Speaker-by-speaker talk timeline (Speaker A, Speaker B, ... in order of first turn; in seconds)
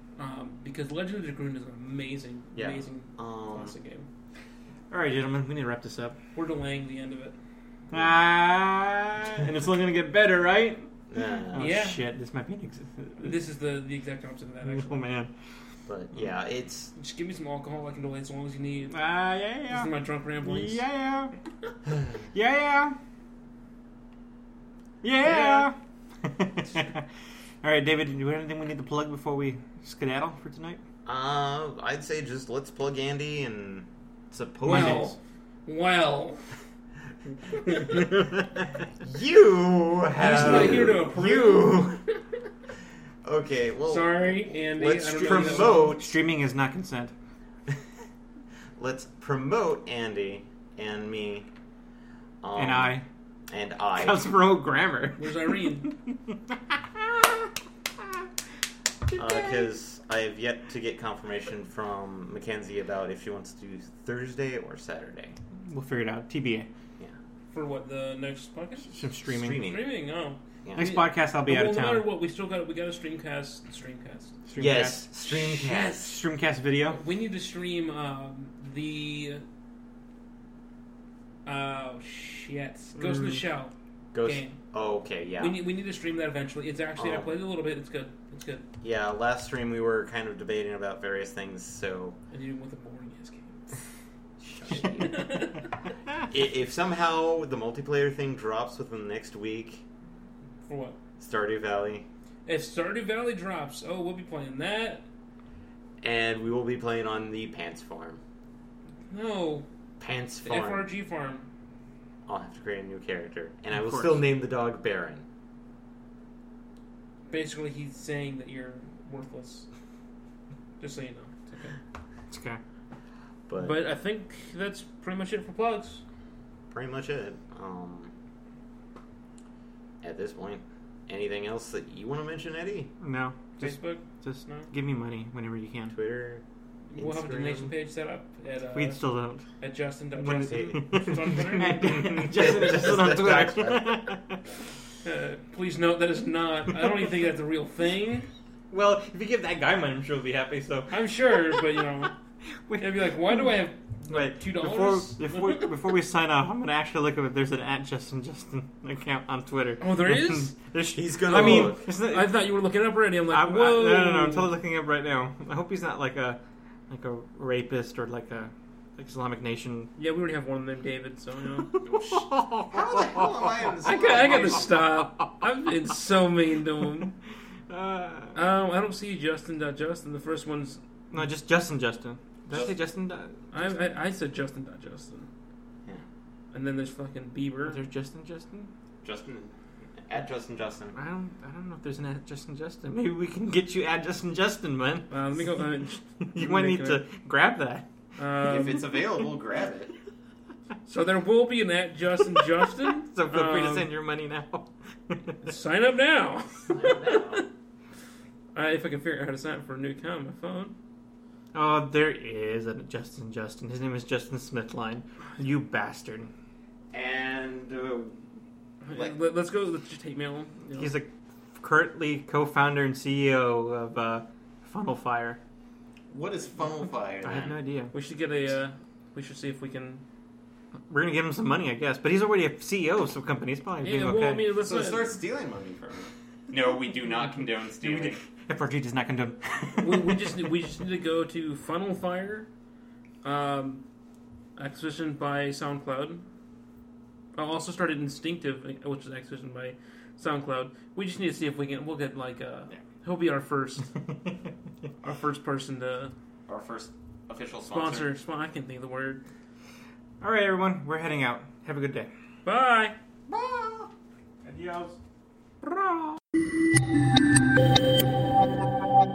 Speaker A: 0.2-4.1, 6.3-7.4, 11.6-12.0, 13.2-15.1, 16.9-20.8, 25.2-25.7, 34.6-36.4, 37.6-38.1, 40.1-42.0, 43.9-45.9, 55.2-55.9, 67.5-74.4, 76.9-79.4, 81.5-84.6, 85.4-88.6, 92.3-93.6, 94.7-95.7, 100.7-101.0, 102.5-105.0, 109.1-109.7, 110.4-111.5, 117.3-119.7, 120.8-121.8, 123.5-126.0, 133.6-134.7, 136.9-139.0, 139.6-142.4, 145.0-148.3, 150.9-152.1, 152.8-155.8, 159.8-160.6, 161.3-164.5, 170.0-172.3, 173.8-177.1, 178.3-180.8, 183.5-185.3, 186.5-187.8, 195.1-197.0, 198.2-199.0, 200.8-203.9, 205.4-207.4, 208.5-210.7, 218.8-220.9, 227.9-230.0, 233.8-235.1, 239.8-242.5, 243.2-243.8, 244.6-246.2, 247.3-253.9, 255.0-256.1, 257.7-259.2, 262.4-263.0
Speaker B: 2.5-3.7, 11.1-11.7, 15.8-16.9, 31.1-35.1, 39.0-42.0, 43.2-46.1, 48.8-51.5, 52.4-53.0, 53.5-54.2, 59.1-65.4, 69.3-69.9, 74.6-76.2, 84.1-85.6, 87.0-87.3, 88.8-92.2, 94.4-95.3, 96.3-99.8, 101.2-102.1, 106.0-108.2, 110.0-110.9, 112.2-115.2, 123.5-123.8, 126.7-128.1, 130.0-132.9, 135.9-136.4, 136.9-137.7, 140.2-141.0, 141.8-144.2, 160.9-161.8, 172.7-174.8, 189.0-191.0, 198.4-199.9, 206.7-207.4, 216.9-218.2, 226.1-227.6, 234.6-238.2, 256.5-258.1, 263.3-263.9
Speaker C: 4.9-6.2, 7.9-10.9, 11.5-13.4, 14.6-15.3, 18.9-19.9, 20.4-21.3, 22.3-23.0, 25.0-27.1, 27.6-30.8, 34.6-35.1, 45.2-47.1, 52.5-53.0, 54.0-57.3, 59.1-59.5, 65.7-66.7, 68.9-69.6, 70.7-72.0, 74.5-77.0, 83.0-83.4, 113.7-114.2, 122.3-122.6, 133.0-135.9, 138.7-139.4, 140.2-144.4, 148.7-151.6, 152.7-153.4, 154.1-162.4, 163.3-169.9, 171.7-175.4, 177.7-178.4, 181.1-183.7, 187.6-188.7, 190.9-195.4, 196.3-197.8, 203.1-205.4, 211.5-216.3, 220.7-225.4, 227.2-227.9, 230.9-234.4, 237.8-240.4, 260.2-262.1, 264.4-265.0, 265.6-266.0